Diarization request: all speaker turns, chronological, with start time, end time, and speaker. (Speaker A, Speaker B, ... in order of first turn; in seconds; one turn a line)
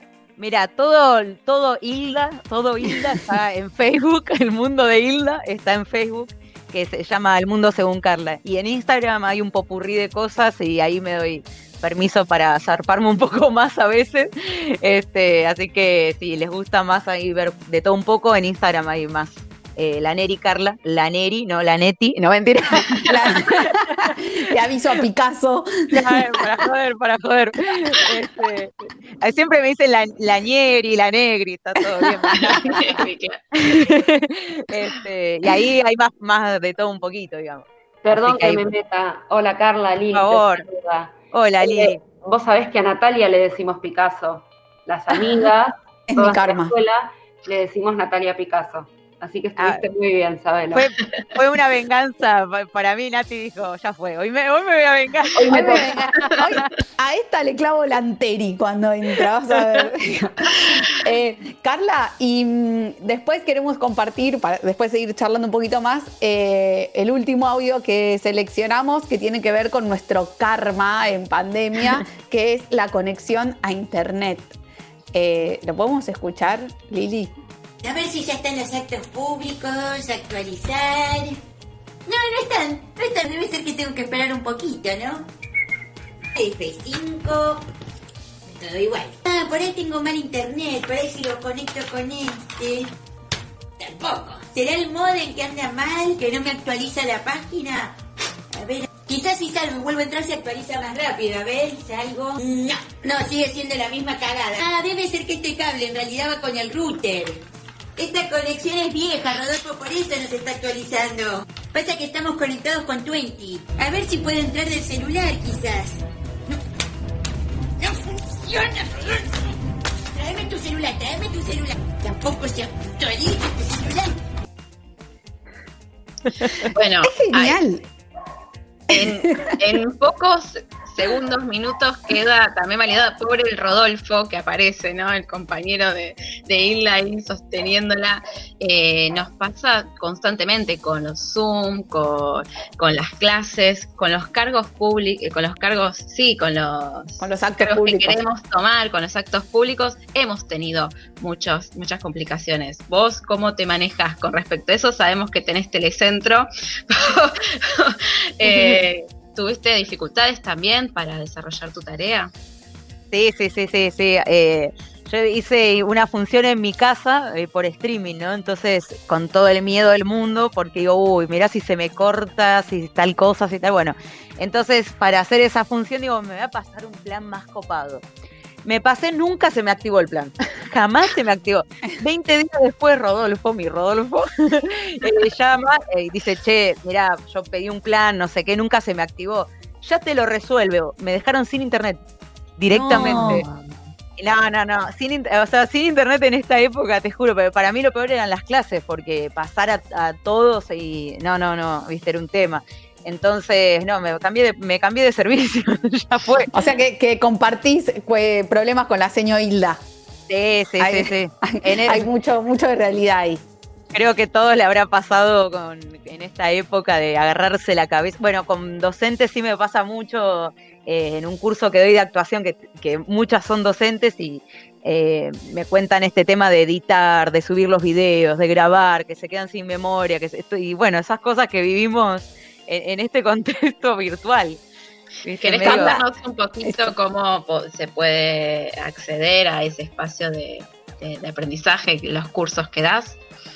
Speaker A: 0.4-24.2
Speaker B: 23.1-26.3
Speaker A: 25.9-33.0
Speaker B: 32.0-32.8
Speaker C: 32.3-33.4
Speaker A: 33.6-38.6
Speaker D: 38.0-50.9
Speaker A: 40.1-40.7
Speaker A: 41.3-42.0
Speaker B: 46.1-46.7
Speaker A: 49.6-49.8
Speaker A: 50.7-56.7
Speaker D: 55.4-56.1
Speaker B: 55.5-74.5
Speaker B: 75.1-77.3
Speaker E: 77.8-81.4
Speaker E: 82.1-85.3
Speaker E: 86.3-87.6
Speaker E: 88.5-92.9
Speaker E: 93.8-98.0
Speaker E: 98.5-107.4
Speaker E: 108.0-116.6
Speaker E: 117.8-119.2
Speaker E: 120.2-124.1
Speaker C: 126.6-127.6
Speaker B: 127.0-127.8
Speaker B: 128.9-129.6
Speaker C: 128.9-162.3
Speaker B: 147.2-148.2
Speaker A: 158.5-158.8
Speaker A: 163.1-178.0
Speaker A: 178.7-192.0
Speaker A: 192.6-193.5
Speaker E: 192.7-193.4
Speaker A: 194.2-206.5
Speaker B: 206.5-209.8
Speaker A: 210.3-212.1
Speaker B: 210.8-213.4
Speaker A: 213.9-234.6
Speaker A: 235.2-236.0
Speaker C: 235.3-243.2
Speaker B: 235.6-236.0